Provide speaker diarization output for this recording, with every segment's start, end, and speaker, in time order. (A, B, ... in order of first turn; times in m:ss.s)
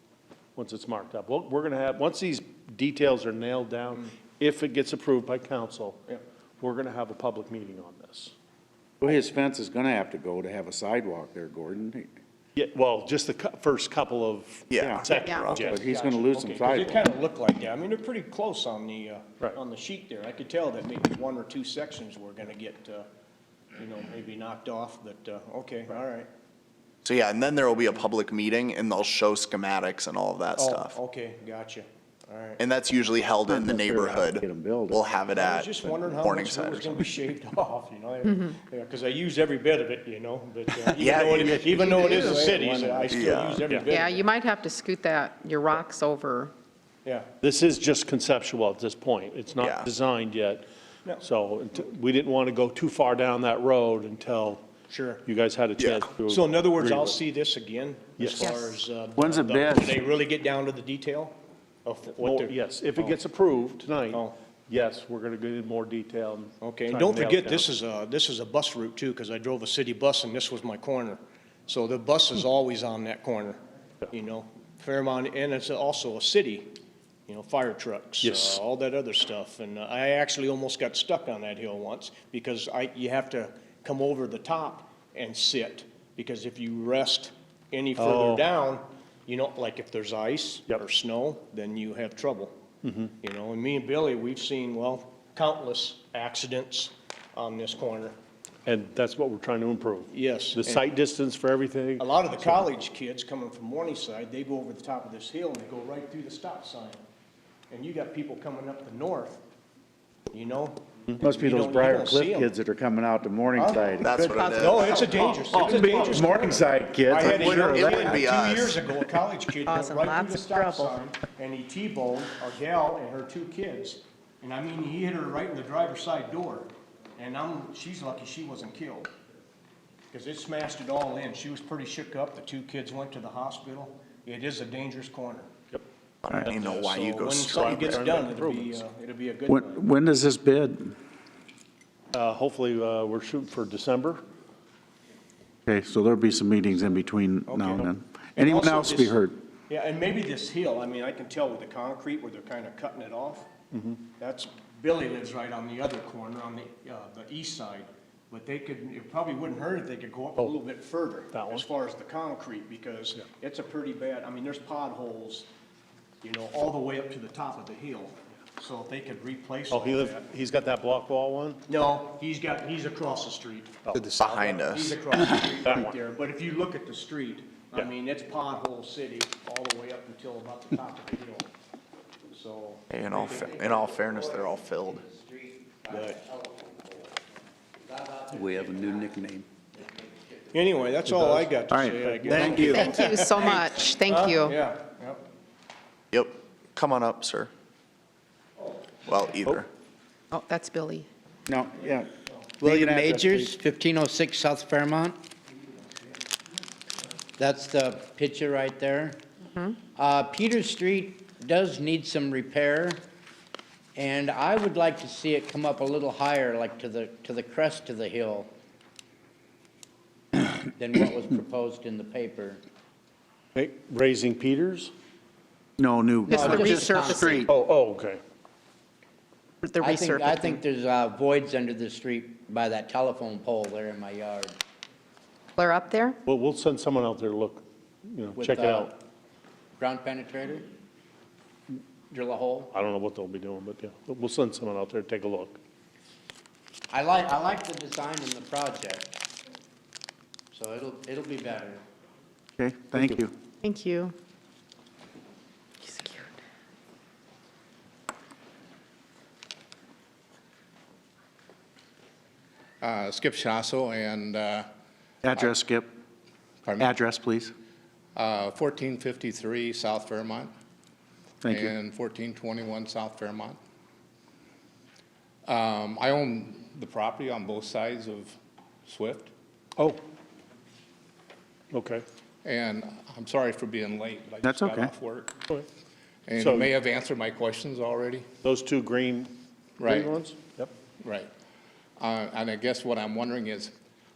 0:00.6-0:06.0 A
0:06.6-0:08.3 A
0:09.0-0:12.1 B
0:12.6-0:15.8 A
0:14.7-0:15.7 C
0:14.8-0:17.0 B
0:15.0-0:23.1 D
0:15.1-0:15.5 E
0:23.8-0:26.3 D
0:27.0-0:31.0 C
0:30.6-0:32.6 D
0:32.6-0:37.1 C
0:33.5-0:35.0 B
0:35.3-0:44.2 D
0:40.9-0:42.0 C
0:41.8-0:42.9 B
0:42.0-0:42.5 E
0:43.1-0:43.6 C
0:43.7-0:43.9 A
0:43.9-0:46.5 E
0:47.4-0:50.7 A
0:49.6-0:49.9 C
0:51.2-0:54.6 A
0:54.9-0:55.2 D
0:55.2-0:57.2 A
0:55.8-0:56.1 C
0:56.3-1:02.6 D
0:58.2-0:58.6 A
0:59.2-1:00.0 B
1:02.2-1:07.7 A
1:06.6-1:16.8 D
1:17.3-1:32.6 D
1:18.2-1:18.6 A
1:28.0-1:28.4 A
1:32.8-1:33.1 A
1:33.2-1:38.2 D
1:38.7-1:42.6 A
1:40.1-1:40.9 D
1:42.0-1:47.0 D
1:47.7-1:49.4 D
1:50.3-1:52.5 D
1:51.2-1:54.6 B
1:53.6-2:09.1 D
1:54.0-1:54.9 C
1:54.2-1:55.4 E
1:55.4-1:56.2 A
1:55.5-1:58.1 B
1:57.2-1:58.8 C
1:57.3-1:58.2 A
1:59.7-2:01.0 E
2:10.1-2:15.5 D
2:16.3-2:18.2 C
2:16.4-2:19.8 D
2:17.5-2:18.8 A
2:19.5-2:21.0 B
2:22.1-2:24.2 A
2:25.7-2:29.4 B
2:27.5-2:33.5 D
2:34.2-2:45.5 D
2:41.3-2:41.6 A
2:46.2-2:50.2 D
2:49.7-2:51.6 A
2:51.7-3:01.5 D
2:53.9-2:54.1 A
2:54.2-2:55.0 C
3:02.3-3:02.8 D
3:02.9-3:05.0 C
3:03.1-3:07.2 F
3:05.9-3:06.2 D
3:07.8-3:10.9 F
3:08.3-3:09.5 B
3:10.5-3:15.2 D
3:11.2-3:12.8 B
3:12.0-3:12.6 A
3:12.3-3:12.8 F
3:12.7-3:14.6 E
3:16.1-3:17.5 C
3:19.0-3:19.7 C
3:20.3-3:21.1 E
3:21.5-3:23.5 B
3:22.6-3:25.2 F
3:27.4-3:29.2 F
3:29.8-3:33.0 F
3:34.0-3:38.5 F
3:40.4-3:42.6 F
3:43.6-3:44.9 A
3:45.8-3:47.5 B
3:46.3-3:47.5 E
3:46.3-3:47.4 F
3:47.5-3:48.2 A
3:49.6-3:50.5 E
3:49.8-3:54.6 F
3:55.6-3:56.2 E
3:56.2-3:58.9 A
3:58.4-3:59.0 F
3:59.8-4:00.7 F
4:02.1-4:02.7 F
4:02.7-4:05.6 A
4:06.9-4:09.2 F
4:10.5-4:11.8 F
4:12.6-4:13.3 B
4:13.6-4:14.1 E
4:15.8-4:16.3 E
4:22.8-4:24.7 G
4:25.2-4:25.9 B
4:26.7-4:26.9 G
4:26.8-4:27.5 B
4:28.2-4:30.5 G
4:31.4-4:31.7 B
4:31.5-4:33.6 G
4:35.5-4:38.4 G
4:38.9-4:39.3 G
4:41.7-4:42.0 A
4:42.4-4:44.5 G
4:44.3-4:45.3 D
4:44.4-4:44.9 B
4:46.3-4:48.3 G
4:46.4-4:46.7 A
4:48.4-4:50.7 A
4:49.8-4:50.1 G
4:51.0-4:51.3 G
4:52.0-4:53.7 G